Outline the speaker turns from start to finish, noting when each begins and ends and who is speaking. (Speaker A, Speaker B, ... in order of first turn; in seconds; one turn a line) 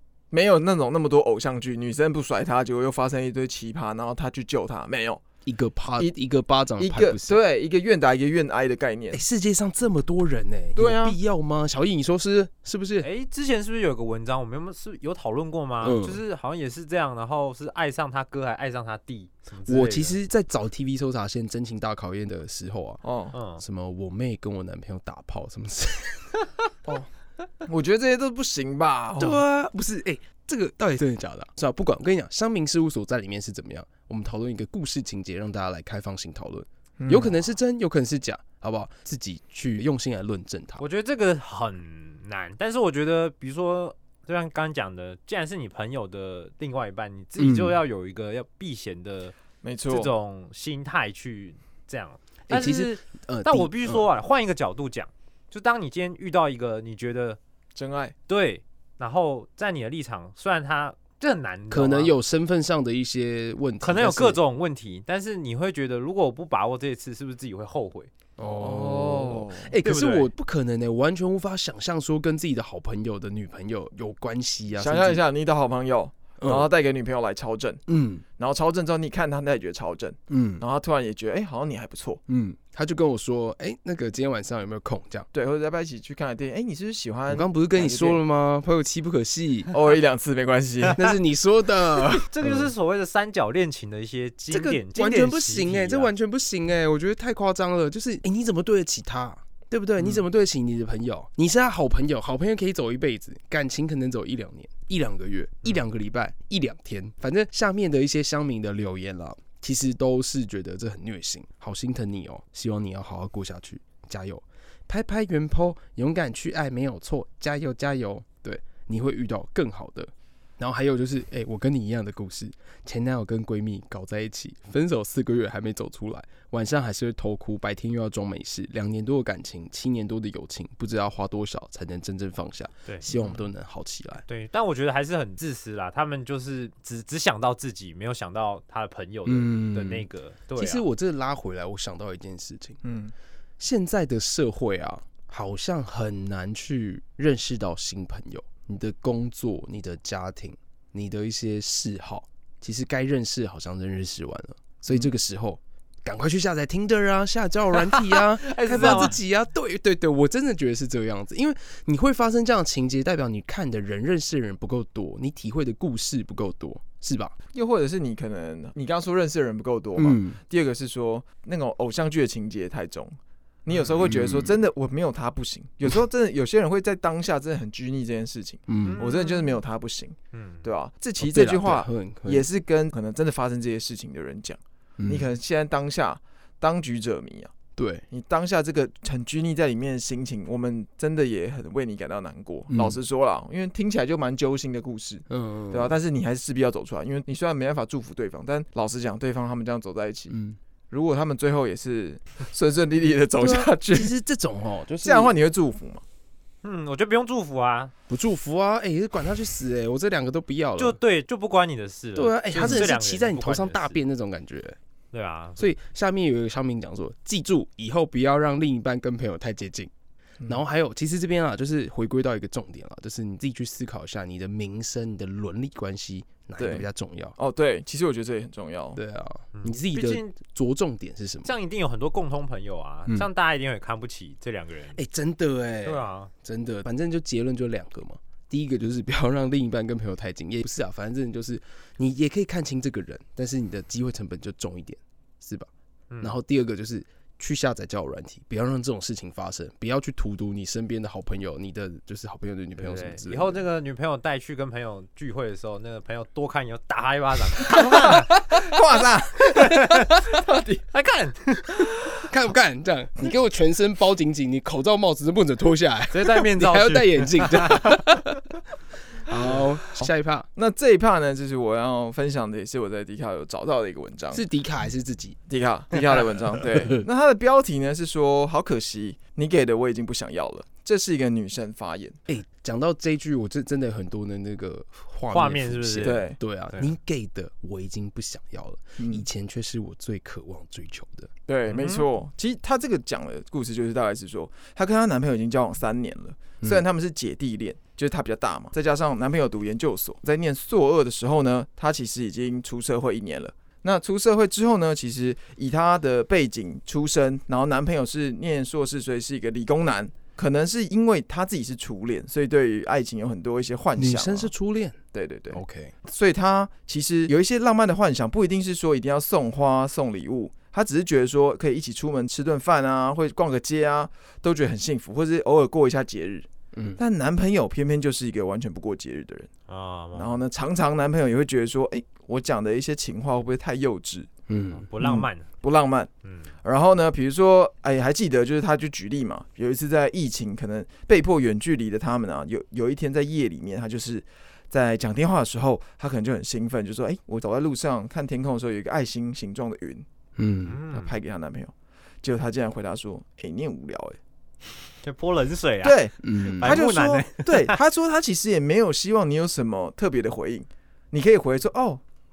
Speaker A: 0.3-5.2
Speaker B: 5.4-7.4
Speaker A: 6.8-9.2
Speaker B: 9.1-13.1
Speaker A: 10.8-11.2
Speaker C: 13.0-20.2
Speaker B: 15.8-16.2
Speaker B: 19.7-23.0
Speaker A: 23.0-23.3
Speaker C: 23.3-23.6
Speaker B: 23.6-26.5
Speaker A: 27.6-29.4
Speaker B: 29.2-40.8
Speaker A: 37.0-37.3
Speaker C: 40.8-49.4
Speaker B: 47.4-47.8
Speaker A: 49.6-50.1
Speaker C: 49.9-57.4
Speaker B: 52.5-54.0
Speaker A: 57.7-58.1
Speaker C: 58.3-62.1
Speaker B: 61.7-64.4
Speaker C: 63.8-68.1
Speaker B: 68.4-75.2
Speaker A: 68.5-69.7
Speaker C: 69.8-70.3
Speaker A: 74.8-77.8
Speaker B: 76.4-76.7
Speaker B: 77.9-78.2
Speaker A: 78.4-82.2
Speaker B: 80.3-80.6
Speaker B: 82.3-85.3
Speaker A: 85.3-88.2
Speaker B: 87.3-89.7
Speaker A: 89.7-91.1
Speaker B: 90.9-92.7
Speaker C: 92.1-96.1
Speaker B: 94.5-134.2
Speaker A: 133.1-133.4
Speaker C: 134.3-140.8
Speaker B: 139.2-142.8
Speaker A: 142.8-143.1
Speaker B: 143.6-167.3
Speaker C: 157.8-159.2
Speaker A: 167.5-187.5
Speaker B: 169.9-170.4
Speaker B: 174.0-174.5
Speaker B: 178.7-179.0
Speaker C: 178.8-179.6
Speaker C: 180.3-180.7
Speaker B: 181.2-182.4
Speaker B: 185.0-185.3
Speaker B: 187.8-188.0
Speaker A: 188.1-200.4
Speaker B: 192.7-193.0
Speaker B: 195.3-195.9
Speaker B: 200.3-200.6
Speaker A: 200.9-204.1
Speaker B: 203.4-205.3
Speaker A: 205.0-206.0
Speaker C: 206.6-207.9
Speaker B: 208.1-211.0
Speaker C: 210.8-214.0
Speaker B: 212.1-214.8
Speaker A: 212.5-212.8
Speaker C: 215.1-215.6
Speaker B: 215.6-219.9
Speaker B: 220.4-227.3
Speaker A: 226.6-229.0
Speaker B: 228.9-231.5
Speaker C: 229.5-230.3
Speaker C: 231.4-235.0
Speaker B: 234.9-245.7
Speaker C: 235.8-236.3
Speaker C: 246.1-246.4
Speaker B: 246.2-253.6
Speaker C: 252.8-258.3
Speaker A: 257.7-260.8
Speaker C: 259.5-260.4
Speaker C: 260.9-261.9
Speaker B: 262.2-268.4
Speaker C: 266.1-268.0
Speaker B: 269.2-270.5
Speaker A: 270.0-274.4
Speaker B: 274.3-275.4
Speaker A: 275.5-282.2
Speaker B: 282.3-291.3
Speaker C: 285.3-286.9
Speaker A: 286.0-286.4
Speaker A: 289.0-289.2
Speaker A: 291.5-314.5
Speaker C: 291.7-292.1
Speaker B: 313.9-315.0
Speaker A: 315.1-329.5
Speaker B: 315.5-315.9
Speaker B: 326.7-327.0
Speaker C: 329.7-330.4
Speaker A: 330.1-334.3
Speaker B: 334.5-334.9
Speaker C: 334.7-335.5
Speaker A: 335.0-336.1
Speaker C: 336.2-336.5
Speaker A: 336.6-350.1
Speaker B: 350.4-350.8
Speaker C: 350.7-351.1
Speaker A: 350.9-354.2
Speaker C: 355.0-357.8
Speaker A: 355.8-362.0
Speaker B: 356.2-356.8